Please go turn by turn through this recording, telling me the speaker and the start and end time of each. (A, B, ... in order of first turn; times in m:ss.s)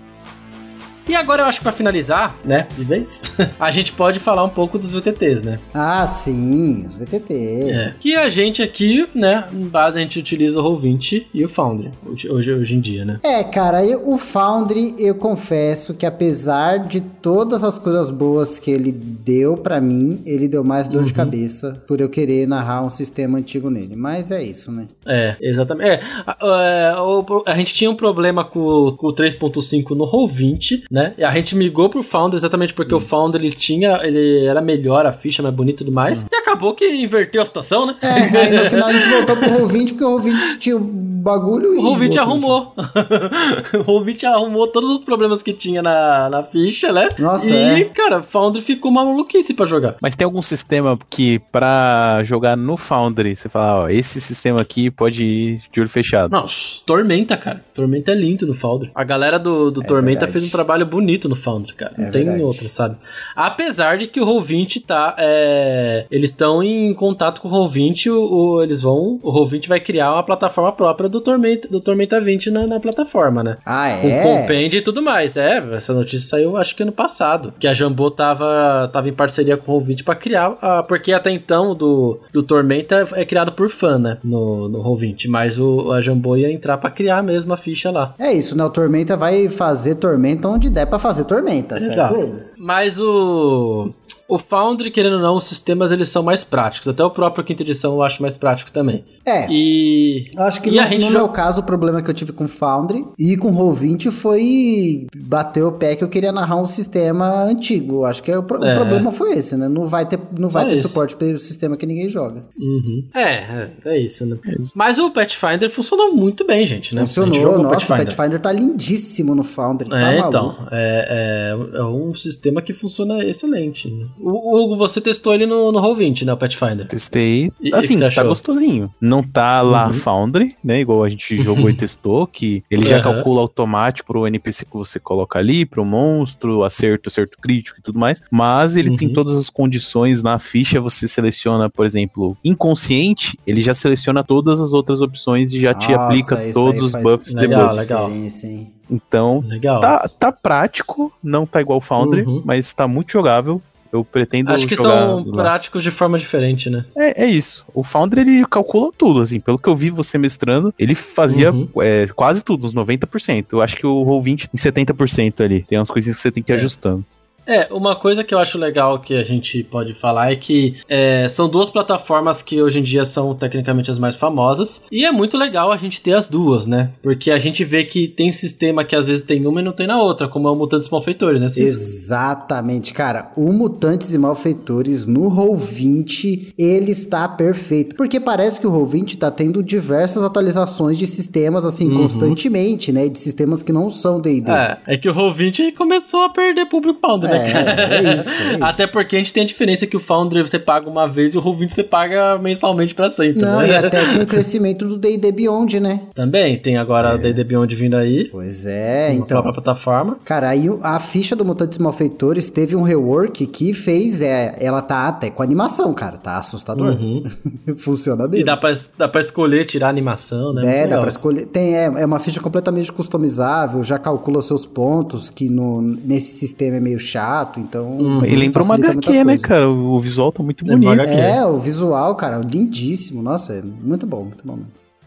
0:01.0-0:05.6 A
0:05.7-0:07.8 B
0:07.6-0:13.2 A
0:13.2-0:24.9 B
0:20.9-0:21.3 A
0:25.1-0:39.6 A
0:32.8-0:33.4 B
0:38.0-0:42.6 B
0:41.7-0:50.0 A
0:47.2-0:47.9 B
0:50.0-0:56.4 C
0:56.3-1:28.1 A
0:59.8-1:00.6 B
1:02.0-1:02.6 B
1:13.7-1:14.6 B
1:28.2-1:32.5 B
1:31.8-1:41.3 A
1:39.2-1:39.5 B
1:40.3-1:52.4 B
1:48.6-1:49.1 A
1:50.5-1:51.0 A
1:52.6-1:58.2 A
1:57.0-2:00.6 B
1:59.9-2:06.9 A
2:06.9-2:27.8 C
2:07.6-2:08.4 A
2:09.7-2:10.0 A
2:11.4-2:11.8 A
2:12.8-2:13.3 A
2:18.8-2:19.2 A
2:25.7-2:28.7 B
2:27.3-2:28.1 A
2:28.9-2:35.5 C
2:29.4-2:29.9 A
2:32.0-2:32.4 A
2:34.4-2:36.9 A
2:37.0-2:47.0 C
2:41.3-2:41.7 A
2:47.5-3:01.9 A
3:01.6-3:14.6 B
3:11.8-3:12.4 A
3:14.4-3:24.4 A
3:17.2-3:18.8 B
3:23.4-3:26.1 B
3:26.2-3:28.3 A
3:27.0-3:27.4 B
3:28.3-3:29.5 B
3:29.1-3:30.2 A
3:30.2-3:38.6 B
3:36.7-3:37.3 A
3:38.3-3:41.2 A
3:40.5-3:49.5 B
3:48.0-3:48.4 A
3:48.2-3:51.1 C
3:50.6-3:51.4 A
3:51.0-3:54.7 B